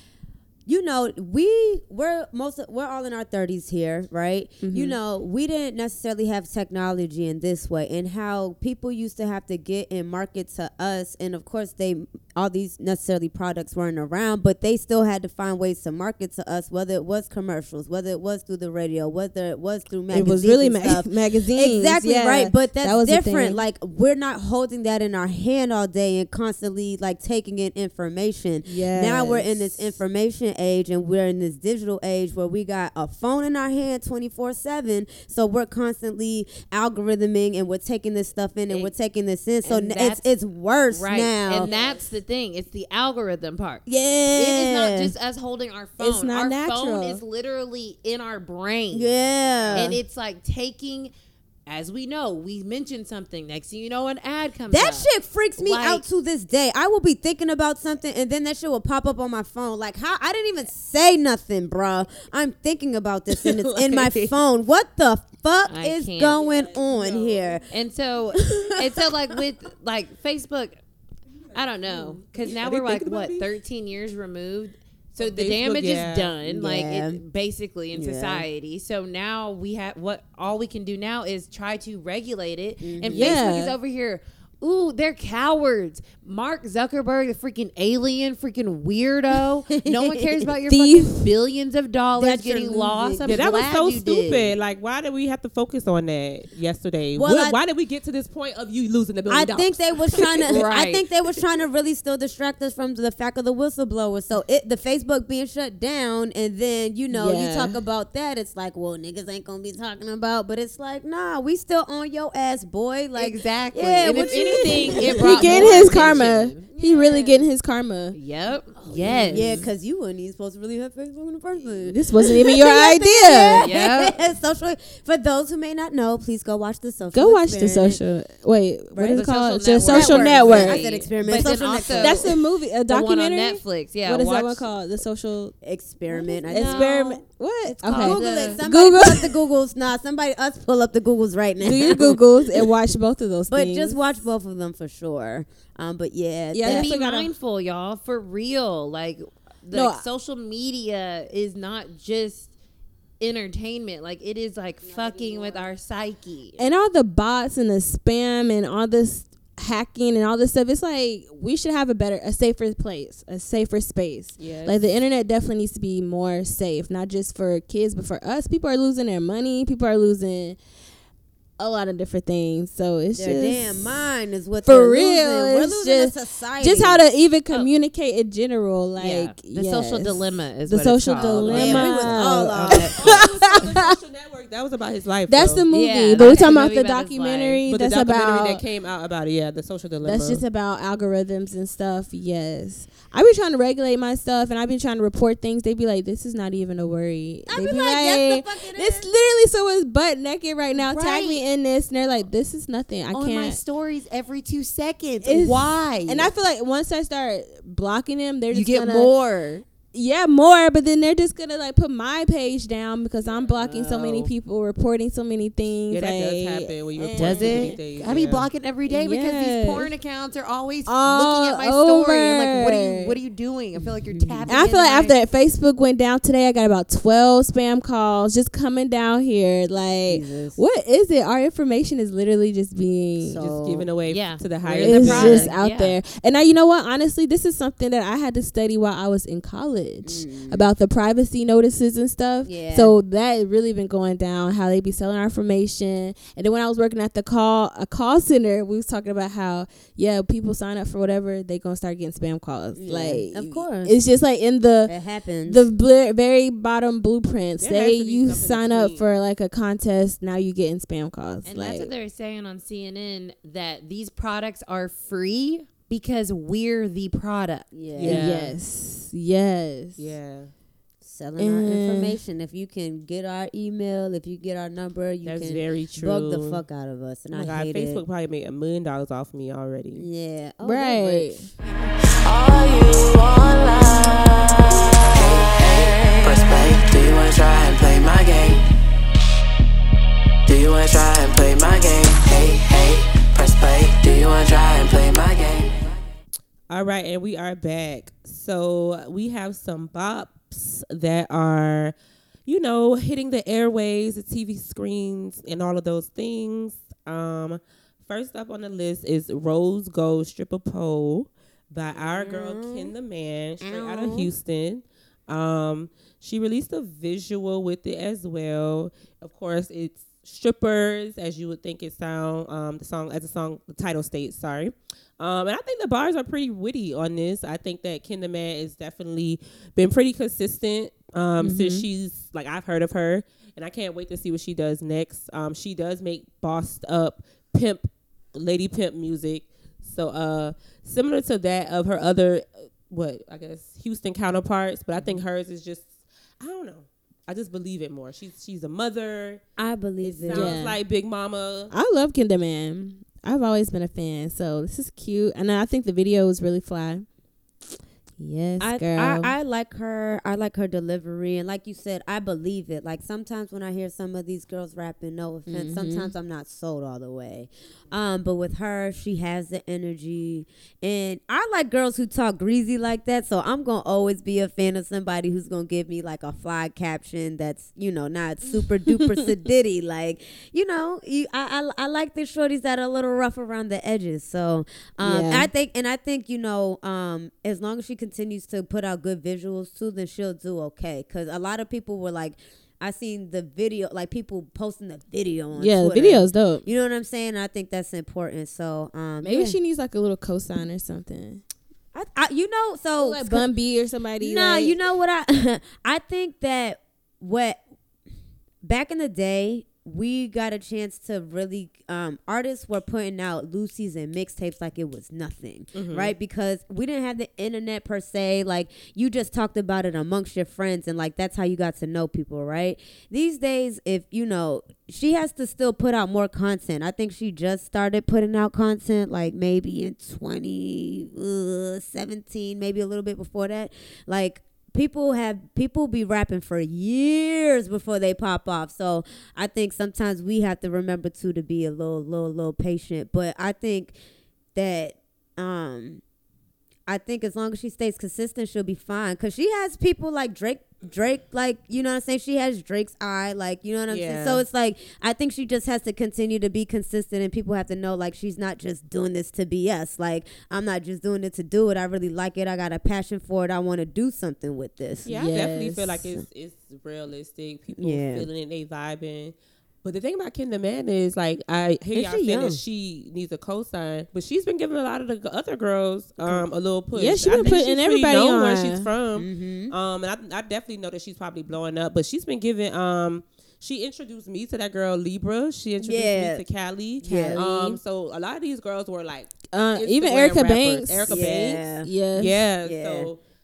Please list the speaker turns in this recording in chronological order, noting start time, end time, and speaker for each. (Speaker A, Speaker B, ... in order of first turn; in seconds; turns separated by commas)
Speaker A: 0.7-41.7, Speaker B: 4.6-5.0, Speaker B: 20.1-23.6, Speaker B: 28.7-29.8, Speaker C: 38.7-38.9, Speaker C: 39.6-40.3, Speaker C: 40.9-43.8, Speaker B: 41.6-42.0, Speaker B: 43.9-44.9, Speaker C: 44.4-49.2, Speaker A: 44.5-45.1, Speaker B: 46.0-47.2, Speaker A: 48.9-50.0, Speaker D: 49.5-49.9, Speaker C: 49.7-51.1, Speaker C: 51.7-56.0, Speaker A: 54.7-67.7, Speaker D: 63.3-64.3, Speaker C: 65.7-66.4, Speaker D: 66.3-67.6, Speaker C: 67.7-70.8, Speaker A: 68.4-68.6, Speaker D: 71.5-73.5, Speaker C: 71.5-94.5, Speaker D: 75.2-76.3, Speaker A: 76.4-77.2, Speaker A: 77.9-78.5, Speaker A: 82.8-83.4, Speaker B: 83.1-83.8, Speaker A: 89.7-90.5, Speaker B: 90.7-91.3, Speaker A: 92.2-93.5, Speaker D: 93.2-100.5, Speaker A: 97.2-97.6, Speaker A: 99.3-116.2, Speaker C: 100.5-101.0, Speaker B: 107.1-107.8, Speaker C: 113.2-117.3, Speaker B: 114.1-118.2, Speaker A: 116.9-117.2, Speaker C: 118.1-119.7, Speaker A: 118.8-128.0, Speaker B: 119.3-119.6, Speaker B: 121.9-123.7, Speaker C: 123.6-124.2, Speaker B: 127.1-130.8, Speaker A: 128.9-129.3, Speaker C: 129.1-132.3, Speaker A: 129.9-132.4, Speaker B: 132.0-135.6, Speaker C: 132.9-134.7, Speaker A: 135.6-137.0, Speaker B: 136.4-139.3, Speaker C: 136.5-137.2, Speaker A: 137.7-142.7, Speaker C: 137.9-138.6, Speaker B: 141.6-144.0, Speaker A: 143.5-146.9, Speaker B: 146.5-147.3, Speaker C: 146.6-152.5, Speaker B: 149.7-150.1, Speaker C: 153.2-156.6, Speaker A: 154.8-155.7, Speaker B: 156.6-170.6, Speaker D: 164.4-164.8, Speaker B: 171.6-174.1, Speaker A: 173.1-177.0, Speaker B: 174.7-183.9, Speaker C: 179.0-182.0, Speaker D: 181.4-185.6, Speaker A: 181.4-183.3, Speaker B: 185.3-188.6, Speaker C: 185.7-187.6, Speaker D: 187.7-190.4, Speaker B: 190.0-203.6, Speaker A: 197.5-199.1, Speaker C: 200.8-201.4, Speaker C: 203.1-206.3, Speaker B: 205.2-209.2, Speaker C: 208.5-209.6, Speaker B: 209.9-217.8, Speaker D: 213.2-214.3, Speaker D: 215.9-218.5, Speaker C: 217.2-225.2, Speaker B: 218.9-219.9, Speaker B: 220.9-223.2, Speaker A: 224.1-224.6, Speaker B: 224.5-233.4, Speaker A: 230.1-230.6, Speaker A: 233.2-233.9, Speaker D: 233.4-235.5, Speaker C: 234.1-236.0, Speaker B: 234.8-254.9, Speaker A: 240.0-240.7, Speaker A: 242.4-243.0, Speaker A: 252.7-253.9, Speaker A: 254.9-255.7, Speaker B: 255.5-261.9, Speaker D: 257.6-259.1, Speaker C: 261.4-268.6, Speaker A: 267.7-268.3, Speaker B: 268.0-270.1, Speaker D: 270.0-270.5, Speaker A: 271.0-278.0, Speaker B: 271.4-272.1, Speaker D: 275.2-276.6, Speaker D: 277.3-280.1, Speaker A: 279.9-281.5, Speaker B: 280.6-281.5, Speaker E: 282.3-288.6, Speaker E: 290.5-295.9, Speaker D: 296.7-301.9, Speaker D: 302.5-349.4, Speaker A: 311.9-312.9, Speaker A: 313.6-314.3, Speaker A: 331.4-331.9, Speaker A: 349.6-350.6, Speaker D: 350.0-351.7, Speaker B: 350.3-350.8, Speaker B: 351.7-357.1, Speaker B: 358.2-359.3, Speaker A: 358.6-399.6, Speaker C: 365.5-366.1, Speaker B: 378.5-379.2, Speaker B: 385.0-385.5, Speaker B: 395.6-396.6, Speaker B: 399.2-401.4, Speaker A: 401.9-403.5, Speaker B: 403.0-404.8, Speaker A: 404.2-407.6, Speaker A: 408.6-444.0, Speaker D: 415.7-416.1, Speaker A: 444.6-446.0, Speaker A: 446.9-465.1, Speaker D: 453.9-454.4, Speaker B: 465.1-466.0, Speaker D: 465.1-493.2, Speaker A: 467.8-468.3, Speaker A: 471.9-472.6, Speaker A: 476.2-476.5, Speaker B: 476.9-478.9, Speaker A: 479.2-479.7, Speaker A: 485.8-486.4, Speaker A: 487.0-487.8, Speaker B: 487.1-487.4, Speaker B: 489.5-492.4, Speaker A: 491.1-491.9, Speaker A: 492.6-493.1